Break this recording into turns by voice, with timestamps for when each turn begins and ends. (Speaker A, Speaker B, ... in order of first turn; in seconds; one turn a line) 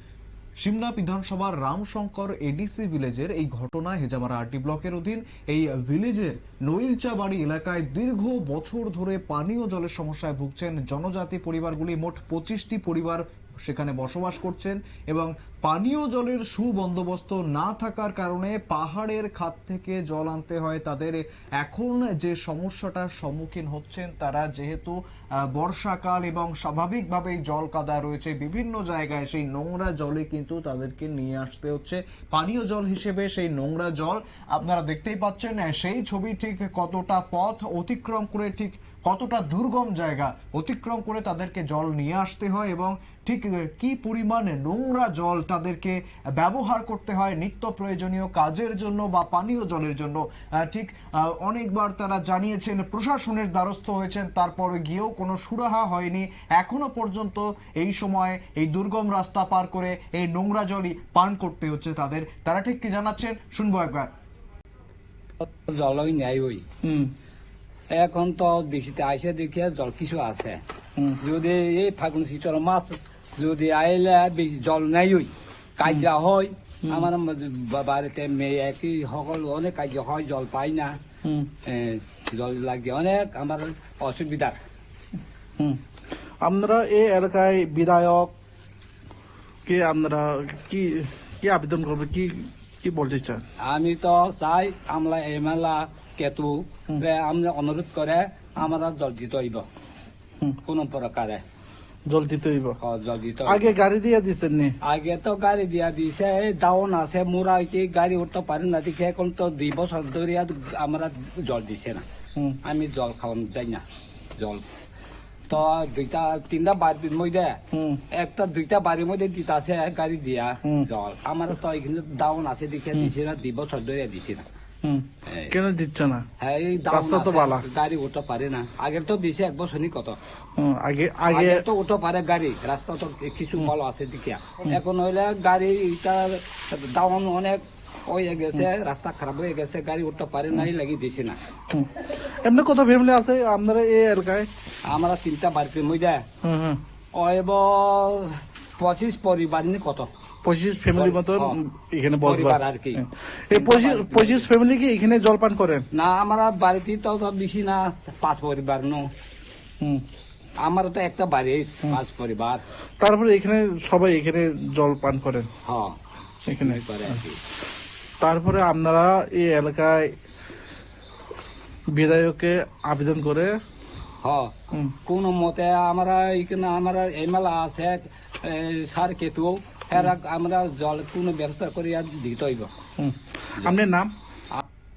Speaker A: 0.6-64.1
Speaker B: 65.4-66.6
Speaker C: 66.8-67.1
Speaker B: 67.9-70.6
Speaker B: 71.2-81.0
Speaker C: 81.2-81.5
Speaker B: 81.6-84.5
Speaker C: 86.4-88.3
Speaker C: 89.6-93.4
Speaker B: 93.6-99.6
Speaker B: 100.6-101.4
Speaker C: 102.1-102.8
Speaker B: 102.8-103.8
Speaker C: 103.4-104.8
Speaker B: 104.8-112.0
Speaker B: 112.6-113.8
Speaker B: 114.4-114.6
Speaker B: 115.5-117.6
Speaker C: 117.7-118.0
Speaker B: 118.1-124.4
Speaker C: 124.8-126.3
Speaker B: 125.2-125.5
Speaker B: 126.4-130.2
Speaker C: 126.9-127.7
Speaker C: 130.6-131.6
Speaker B: 131.3-141.4
Speaker C: 141.7-144.5
Speaker B: 144.8-146.2
Speaker C: 146.4-146.8
Speaker B: 147.1-150.1
Speaker C: 150.4-155.9
Speaker B: 150.9-151.6
Speaker B: 152.2-154.5
Speaker B: 155.9-159.1
Speaker B: 160.6-162.6
Speaker C: 163.0-165.5
Speaker B: 165.7-166.0
Speaker C: 166.5-166.8
Speaker B: 166.5-167.4
Speaker C: 168.2-170.2
Speaker C: 171.9-173.5
Speaker B: 174.2-182.7
Speaker C: 183.0-184.1